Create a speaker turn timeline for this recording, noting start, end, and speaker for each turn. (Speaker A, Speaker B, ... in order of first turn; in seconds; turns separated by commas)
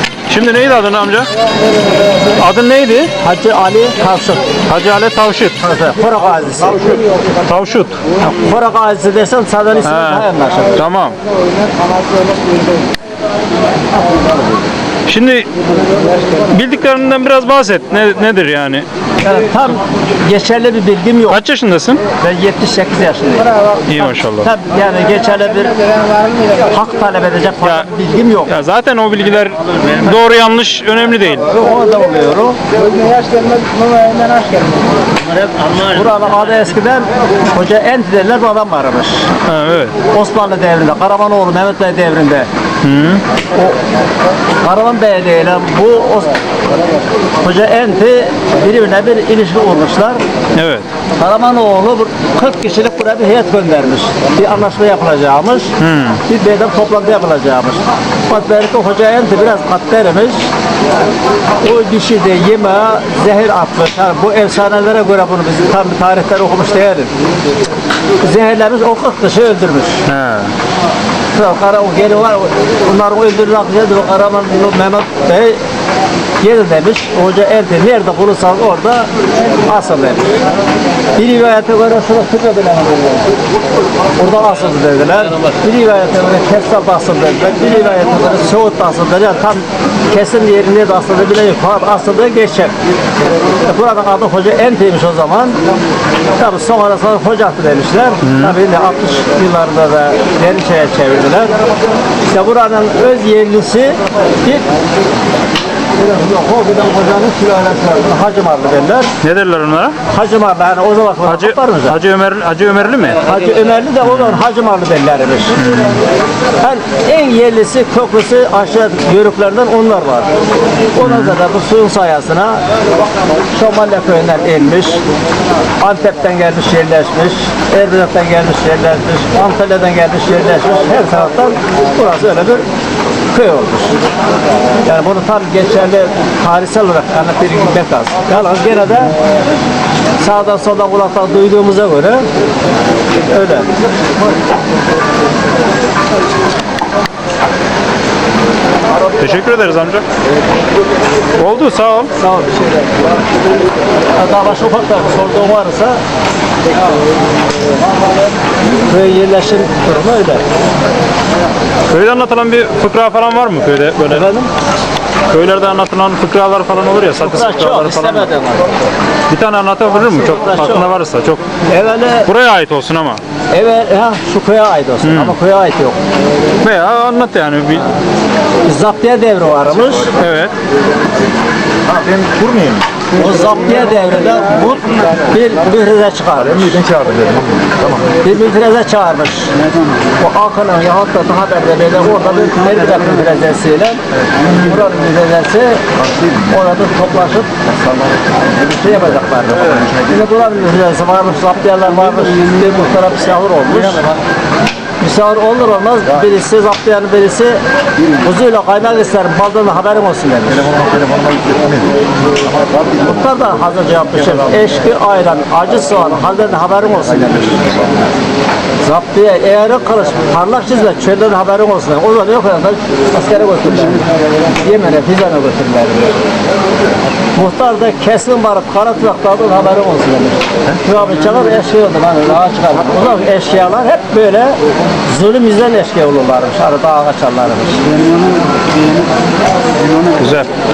Speaker A: 0.3-1.3, Speaker A: 2.3-3.1, Speaker B: 3.2-4.5, Speaker A: 4.7-5.6, Speaker B: 5.6-7.0, Speaker A: 7.5-8.0, Speaker B: 8.2-10.8, Speaker A: 9.8-11.2, Speaker A: 15.1-15.5, Speaker A: 16.4-18.9, Speaker B: 19.2-21.4, Speaker A: 21.3-22.0, Speaker B: 22.2-28.5, Speaker A: 23.9-24.5, Speaker A: 27.6-27.9, Speaker A: 28.5-31.5, Speaker B: 31.5-32.6, Speaker C: 33.1-34.6, Speaker C: 35.4-35.7, Speaker B: 35.8-39.3, Speaker A: 39.5-40.0, Speaker B: 40.1-42.5, Speaker A: 42.8-43.2, Speaker B: 44.6-46.4, Speaker B: 47.4-50.2, Speaker A: 50.5-50.9, Speaker B: 51.2-55.7, Speaker A: 55.8-56.2, Speaker B: 56.3-60.5, Speaker B: 61.6-67.1, Speaker B: 68.2-70.0, Speaker A: 70.1-70.5, Speaker B: 71.3-75.6, Speaker B: 76.4-79.1, Speaker B: 79.6-80.3, Speaker B: 81.2-83.2, Speaker B: 84.2-92.7, Speaker B: 93.6-95.6, Speaker B: 96.4-101.5, Speaker A: 98.2-98.6, Speaker B: 102.3-104.7, Speaker B: 106.0-109.1, Speaker A: 109.2-110.0, Speaker B: 110.1-112.0, Speaker A: 111.3-113.2, Speaker B: 113.2-115.6, Speaker A: 114.0-114.4, Speaker A: 115.6-116.0, Speaker B: 116.6-120.3, Speaker B: 120.9-122.6, Speaker A: 121.0-121.4, Speaker B: 123.5-125.0, Speaker B: 125.8-132.6, Speaker B: 133.3-134.0, Speaker B: 134.8-139.1, Speaker B: 140.2-142.3, Speaker B: 143.3-143.7, Speaker A: 149.1-150.1, Speaker A: 151.4-152.1, Speaker B: 152.2-152.7, Speaker B: 154.2-156.0, Speaker B: 158.9-160.4, Speaker A: 161.9-164.3, Speaker B: 164.1-164.5, Speaker A: 165.3-168.3, Speaker B: 167.2-168.7, Speaker A: 169.3-171.4, Speaker B: 170.3-170.9, Speaker B: 171.7-172.3, Speaker A: 172.2-173.2, Speaker B: 173.5-176.0, Speaker A: 175.0-175.4, Speaker A: 176.6-177.9, Speaker B: 178.7-180.1, Speaker A: 180.2-180.5, Speaker C: 182.4-182.8, Speaker B: 183.1-186.9, Speaker C: 187.1-187.5, Speaker B: 188.2-189.5, Speaker B: 190.2-195.8, Speaker B: 196.4-197.5, Speaker B: 198.6-204.1, Speaker B: 205.0-207.6, Speaker B: 208.2-210.8, Speaker B: 213.0-217.7, Speaker B: 218.8-224.1, Speaker B: 224.6-226.2, Speaker B: 227.4-237.9, Speaker A: 240.1-240.5